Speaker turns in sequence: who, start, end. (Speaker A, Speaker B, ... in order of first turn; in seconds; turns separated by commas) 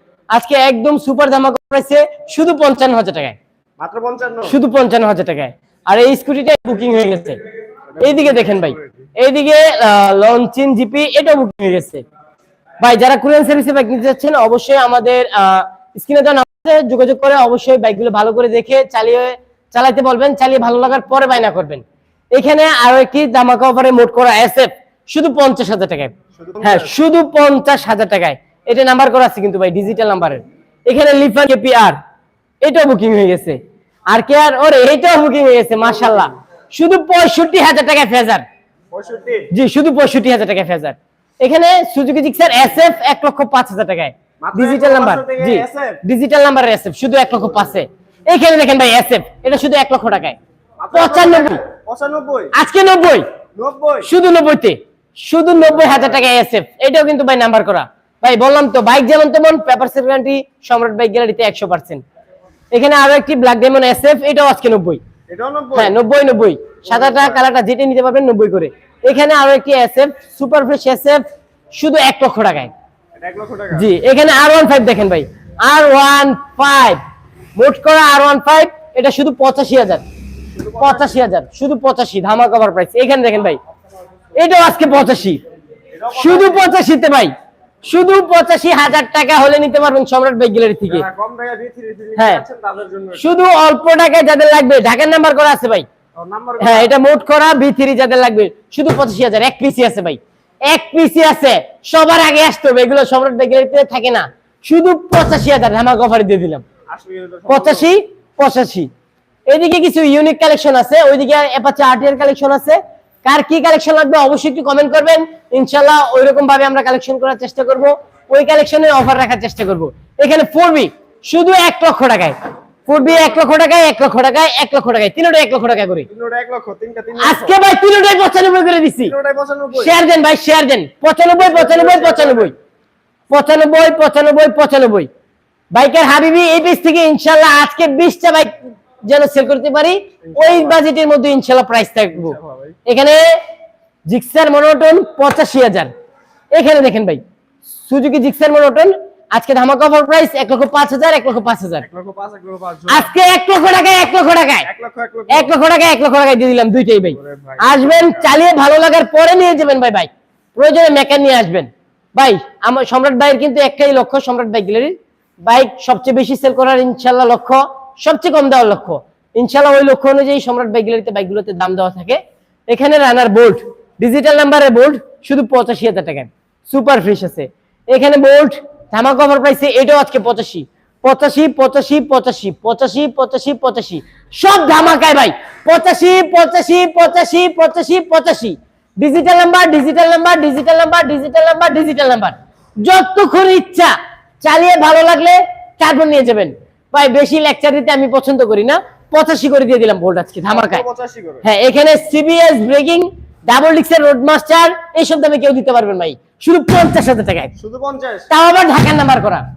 Speaker A: 0.3-3.4, Speaker B: 3.8-4.6, Speaker A: 4.5-7.4, Speaker B: 8.0-9.1, Speaker A: 8.0-12.0, Speaker A: 12.8-32.0, Speaker B: 26.4-26.9, Speaker A: 32.6-33.6, Speaker A: 34.1-38.5, Speaker B: 38.9-39.5, Speaker A: 39.5-50.4, Speaker B: 44.4-46.0, Speaker B: 50.8-52.5, Speaker A: 50.9-51.6, Speaker A: 52.5-53.2, Speaker B: 53.6-54.1, Speaker A: 54.0-62.0, Speaker B: 55.6-56.2, Speaker A: 62.7-65.0, Speaker B: 65.3-65.9, Speaker A: 65.8-71.2, Speaker B: 66.9-67.4, Speaker A: 71.7-72.7, Speaker B: 73.2-73.9, Speaker A: 73.7-77.0, Speaker A: 77.6-80.0, Speaker B: 80.5-81.2, Speaker A: 80.8-83.6, Speaker A: 84.4-85.4, Speaker B: 85.9-86.7, Speaker A: 86.2-87.3, Speaker A: 87.8-91.1, Speaker B: 90.9-93.3, Speaker A: 92.2-92.4, Speaker A: 93.2-95.9, Speaker B: 96.2-96.9, Speaker A: 96.6-106.6, Speaker B: 106.9-107.9, Speaker A: 107.5-108.9, Speaker A: 109.5-126.1, Speaker B: 122.9-123.4, Speaker B: 126.1-127.6, Speaker A: 127.2-129.1, Speaker B: 129.0-129.9, Speaker A: 129.7-132.5, Speaker B: 131.4-132.5, Speaker A: 133.3-135.1, Speaker A: 135.7-138.6, Speaker A: 139.1-143.2, Speaker B: 140.2-140.8, Speaker B: 142.1-142.8, Speaker A: 144.1-145.9, Speaker A: 146.5-147.2, Speaker A: 147.9-151.9, Speaker B: 151.8-153.1, Speaker A: 152.9-154.7, Speaker B: 154.7-155.6, Speaker A: 155.3-200.8, Speaker B: 157.1-158.3, Speaker B: 200.5-201.4, Speaker A: 201.4-207.5, Speaker B: 207.6-208.3, Speaker A: 208.3-209.4